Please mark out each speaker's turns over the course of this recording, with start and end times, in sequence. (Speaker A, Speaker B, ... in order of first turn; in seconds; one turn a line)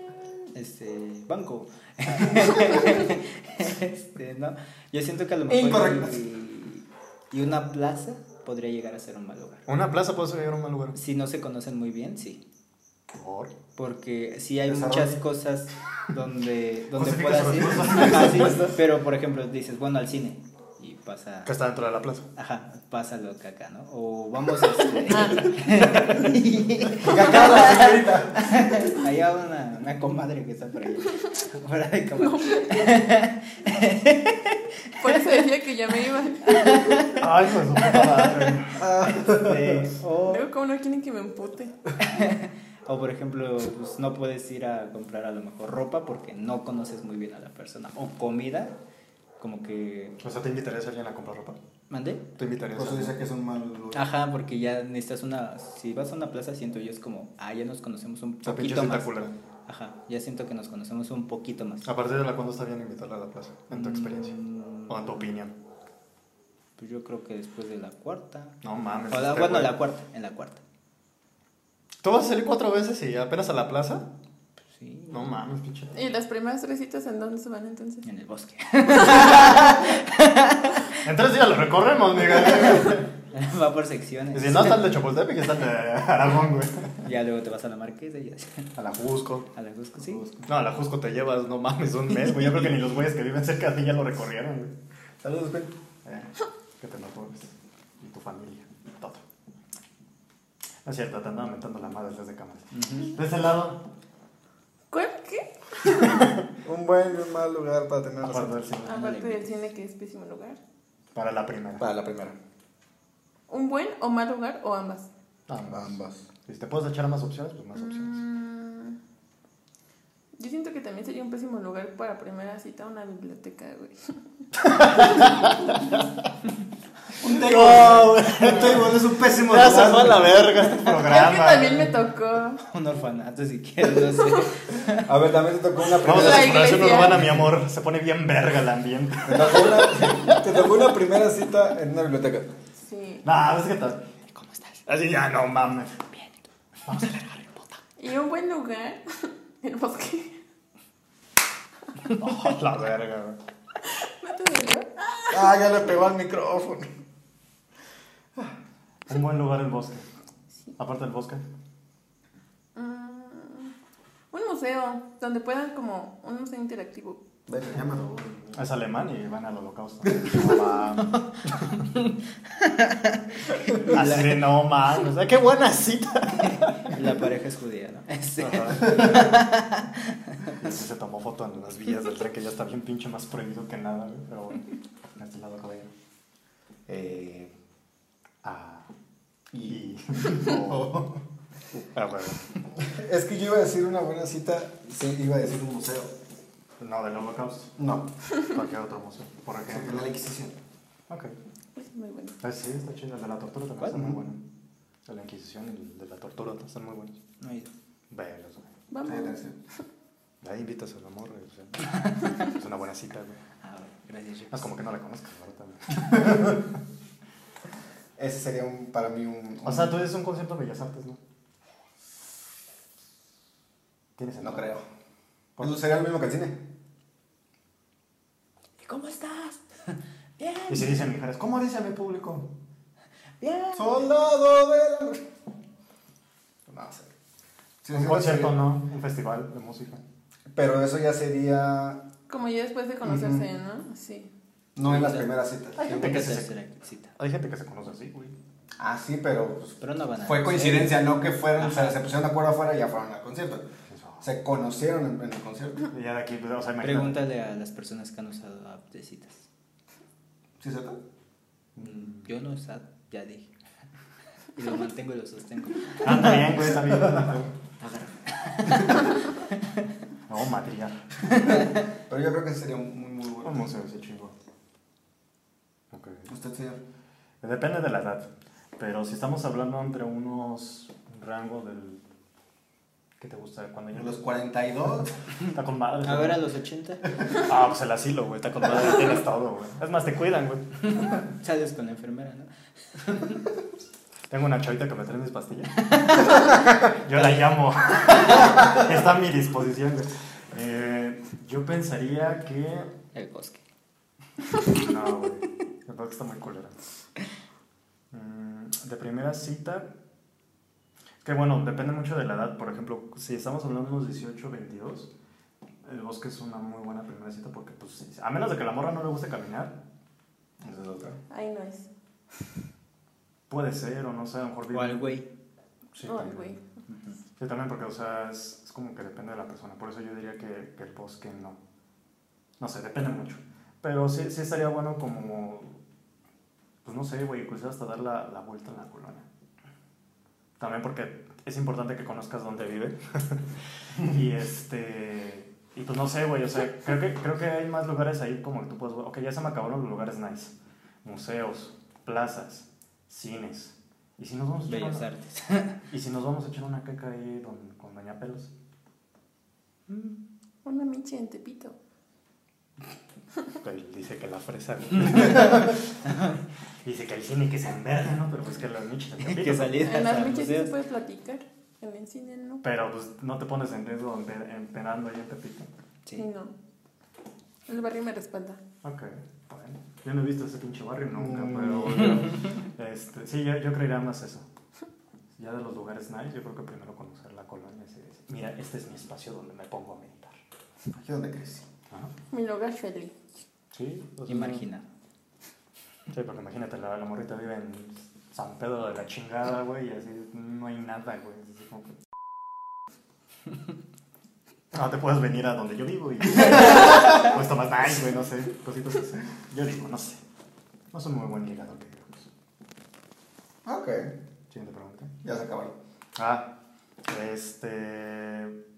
Speaker A: 0.5-9.6
Speaker B: 5.5-6.2
Speaker C: 9.7-11.0
Speaker A: 10.9-12.4
Speaker C: 13.1-13.5
Speaker A: 13.8-21.5
Speaker B: 14.6-15.2
Speaker C: 16.9-18.7
Speaker B: 18.0-18.5
Speaker C: 21.4-22.3
Speaker A: 22.3-35.3
Speaker D: 25.1-25.5
Speaker B: 27.0-28.7
Speaker D: 32.2-32.8
Speaker D: 35.0-37.1
Speaker A: 36.5-37.3
Speaker C: 37.1-38.8
Speaker A: 37.9-38.5
Speaker B: 38.8-39.9
Speaker A: 39.0-40.4
Speaker D: 40.2-41.7
Speaker A: 42.0-48.7
Speaker A: 49.4-50.2
Speaker C: 50.2-51.6
Speaker A: 51.9-52.3
Speaker C: 52.4-53.2
Speaker B: 52.8-54.1
Speaker A: 53.9-61.9
Speaker C: 58.4-59.3
Speaker C: 61.8-65.5
Speaker A: 63.7-65.3
Speaker A: 66.8-68.6
Speaker C: 68.6-69.8
Speaker A: 69.1-70.6
Speaker C: 72.0-74.1
Speaker A: 74.6-75.3
Speaker C: 75.1-76.0
Speaker D: 75.9-78.1
Speaker A: 78.0-81.0
Speaker D: 79.1-79.6
Speaker C: 81.0-83.1
Speaker A: 83.3-84.9
Speaker C: 84.3-87.1
Speaker A: 87.0-88.7
Speaker C: 88.8-89.5
Speaker A: 89.5-90.3
Speaker C: 90.4-94.7
Speaker B: 95.2-95.7
Speaker C: 96.0-99.2
Speaker C: 100.8-103.8
Speaker A: 102.7-103.2
Speaker D: 104.9-106.3
Speaker C: 106.0-106.4
Speaker B: 106.6-108.6
Speaker C: 108.2-109.0
Speaker A: 108.8-109.7
Speaker D: 108.8-110.6
Speaker C: 111.1-111.9
Speaker B: 111.8-112.3
Speaker D: 113.5-115.1
Speaker C: 115.5-115.9
Speaker B: 115.7-116.2
Speaker C: 116.5-118.2
Speaker D: 117.7-119.0
Speaker D: 120.4-124.1
Speaker C: 124.6-126.1
Speaker B: 127.2-130.4
Speaker C: 127.2-131.9
Speaker D: 130.8-132.6
Speaker A: 132.6-135.1
Speaker B: 135.0-136.9
Speaker C: 136.0-140.6
Speaker D: 136.0-137.3
Speaker B: 139.3-142.5
Speaker D: 142.8-143.2
Speaker C: 143.2-146.3
Speaker C: 146.8-147.8
Speaker D: 148.0-150.3
Speaker C: 152.0-153.4
Speaker D: 153.8-155.5
Speaker B: 155.3-156.9
Speaker C: 159.1-160.1
Speaker C: 160.8-161.4
Speaker D: 162.7-163.7
Speaker D: 164.3-167.2
Speaker B: 167.5-168.6
Speaker C: 168.5-171.7
Speaker A: 171.7-174.5
Speaker C: 173.8-177.0
Speaker A: 176.8-180.5
Speaker C: 178.4-179.4
Speaker C: 180.6-185.9
Speaker B: 186.9-187.5
Speaker C: 188.4-188.9
Speaker B: 189.5-191.2
Speaker C: 189.6-191.1
Speaker C: 191.8-192.4
Speaker B: 192.8-196.1
Speaker C: 196.8-197.8
Speaker B: 197.8-198.1
Speaker C: 198.4-200.1
Speaker B: 199.7-200.6
Speaker C: 201.1-201.3
Speaker D: 201.8-202.4
Speaker C: 202.4-204.4
Speaker A: 203.8-204.1
Speaker C: 205.1-207.2
Speaker A: 207.4-207.7
Speaker C: 208.1-208.7
Speaker D: 208.9-209.4
Speaker B: 209.0-209.6
Speaker C: 210.4-213.4
Speaker A: 213.6-214.6
Speaker C: 214.5-216.7
Speaker B: 218.2-220.0
Speaker C: 219.6-221.2
Speaker C: 224.2-224.8
Speaker B: 224.4-224.8
Speaker B: 225.6-226.6
Speaker A: 228.8-230.9
Speaker C: 230.7-232.5
Speaker A: 233.4-233.8
Speaker B: 233.7-235.2
Speaker B: 236.7-237.1
Speaker B: 237.8-238.6
Speaker C: 237.9-240.0
Speaker B: 240.5-242.0
Speaker D: 242.3-244.3
Speaker B: 243.0-243.4
Speaker B: 244.8-246.2
Speaker A: 244.8-247.1
Speaker C: 245.8-246.5
Speaker C: 247.2-248.3
Speaker B: 248.8-253.7
Speaker A: 249.8-251.1
Speaker A: 251.6-251.9
Speaker C: 253.9-254.2
Speaker B: 254.2-255.9
Speaker C: 255.9-257.2
Speaker A: 256.8-259.4
Speaker B: 260.6-261.0
Speaker C: 261.8-262.3
Speaker A: 261.8-263.5
Speaker A: 264.6-266.4
Speaker C: 266.0-267.5
Speaker B: 267.1-267.4
Speaker A: 267.8-269.5
Speaker C: 270.3-271.1
Speaker B: 272.0-273.6
Speaker C: 273.4-274.3
Speaker C: 275.9-276.3
Speaker B: 276.3-276.8
Speaker C: 277.4-282.0
Speaker C: 283.2-284.2
Speaker B: 283.9-285.1
Speaker C: 285.5-286.4
Speaker A: 286.0-287.3
Speaker C: 287.3-290.8
Speaker A: 291.1-293.4
Speaker C: 294.3-295.9
Speaker A: 295.8-296.5
Speaker C: 296.9-302.9
Speaker A: 303.1-303.6
Speaker C: 304.7-306.7
Speaker C: 308.1-309.9
Speaker C: 311.2-315.1
Speaker C: 315.8-319.8
Speaker B: 320.6-321.2
Speaker D: 321.3-321.9
Speaker C: 323.5-325.1
Speaker A: 324.7-325.3
Speaker C: 325.9-326.6
Speaker D: 326.0-326.6
Speaker A: 326.9-327.1
Speaker C: 327.4-331.6
Speaker C: 332.6-335.8
Speaker C: 336.8-339.2
Speaker C: 340.6-355.1
Speaker A: 354.7-355.8
Speaker C: 355.9-358.5
Speaker C: 359.9-360.2
Speaker D: 360.6-361.8
Speaker C: 363.6-365.8
Speaker C: 366.8-369.9
Speaker A: 369.2-370.7
Speaker D: 369.8-372.6
Speaker C: 372.6-375.7
Speaker D: 376.1-376.5
Speaker D: 377.7-378.6
Speaker C: 378.8-384.5
Speaker B: 381.1-382.3
Speaker C: 385.4-390.4
Speaker B: 390.9-391.6
Speaker D: 392.3-393.1
Speaker C: 393.7-394.7
Speaker A: 394.3-394.8
Speaker C: 396.1-402.0
Speaker C: 404.7-410.2
Speaker C: 410.9-412.3
Speaker B: 413.6-414.2
Speaker C: 414.5-415.1
Speaker B: 415.2-415.8
Speaker C: 416.1-416.5
Speaker C: 417.1-418.6